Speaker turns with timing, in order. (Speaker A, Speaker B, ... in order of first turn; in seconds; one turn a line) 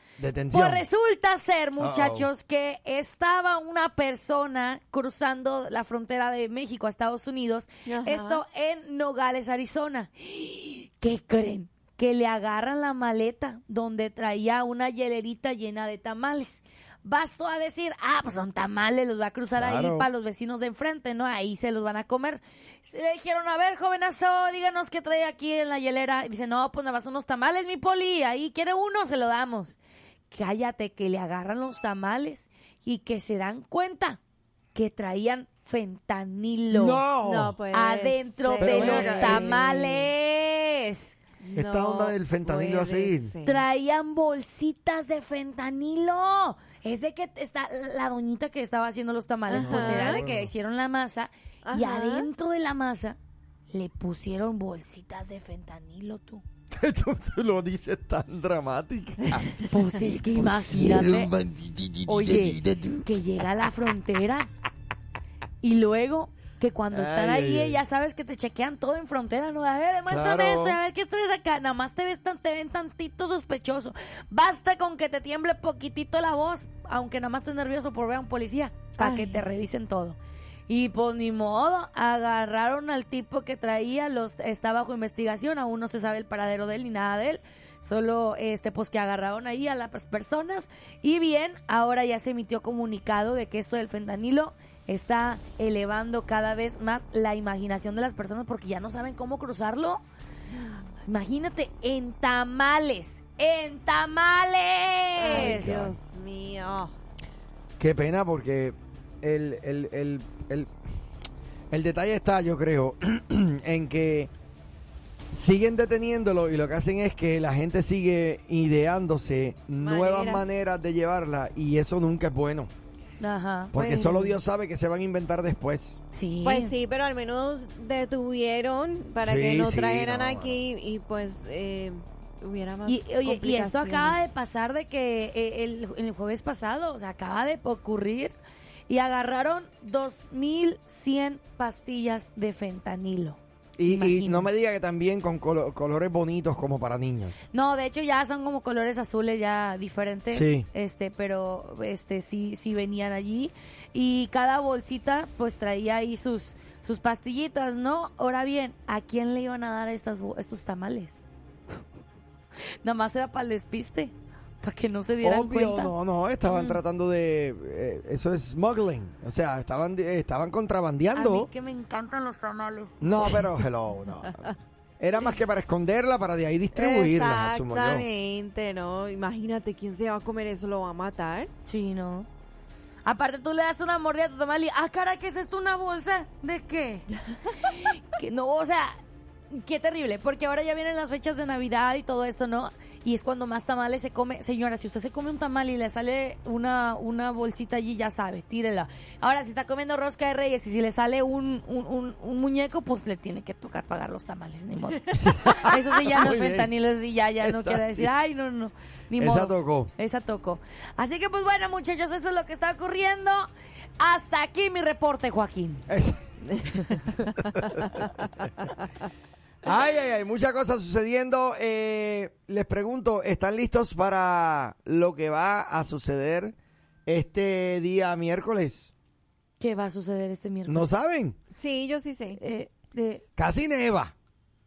Speaker A: 0.2-0.8
Speaker B: 0.5-29.8
Speaker A: 1.8-2.3
Speaker C: 7.9-8.4
Speaker A: 19.6-20.1
Speaker B: 30.3-34.2
Speaker B: 34.7-37.0
Speaker A: 36.7-37.6
Speaker C: 37.2-40.1
Speaker B: 37.7-41.2
Speaker A: 38.5-39.7
Speaker C: 41.4-43.6
Speaker A: 41.5-43.3
Speaker B: 43.4-53.2
Speaker C: 49.5-50.2
Speaker A: 49.5-50.5
Speaker C: 51.7-52.3
Speaker B: 53.7-56.4
Speaker A: 56.7-63.1
Speaker B: 59.6-61.3
Speaker B: 62.1-64.5
Speaker B: 65.6-100.0
Speaker A: 66.9-67.8
Speaker A: 70.1-70.8
Speaker C: 79.0-79.5
Speaker B: 101.0-105.9
Speaker C: 105.2-106.9
Speaker A: 105.3-106.0
Speaker A: 107.8-110.7
Speaker A: 111.7-114.3
Speaker A: 115.3-122.7
Speaker C: 119.8-120.7
Speaker B: 123.2-123.7
Speaker A: 123.7-126.0
Speaker C: 123.7-124.4
Speaker B: 126.1-126.7
Speaker C: 126.4-134.4
Speaker A: 129.2-130.6
Speaker B: 132.8-138.4
Speaker B: 138.9-144.5
Speaker A: 143.8-147.4
Speaker B: 147.5-161.2
Speaker A: 150.3-150.7
Speaker B: 162.8-165.9
Speaker A: 165.2-171.5
Speaker B: 171.1-173.0
Speaker A: 173.0-178.1
Speaker C: 176.7-181.5
Speaker B: 181.7-182.3
Speaker B: 183.1-189.0
Speaker B: 189.5-215.8
Speaker A: 205.2-206.7
Speaker A: 207.4-208.1
Speaker A: 209.2-209.9
Speaker A: 215.9-216.2
Speaker B: 216.8-217.1
Speaker A: 217.6-218.1
Speaker A: 219.6-226.6
Speaker A: 227.1-228.9
Speaker B: 229.6-230.9
Speaker A: 230.7-231.4
Speaker C: 231.6-232.4
Speaker B: 232.4-233.2
Speaker A: 233.4-234.1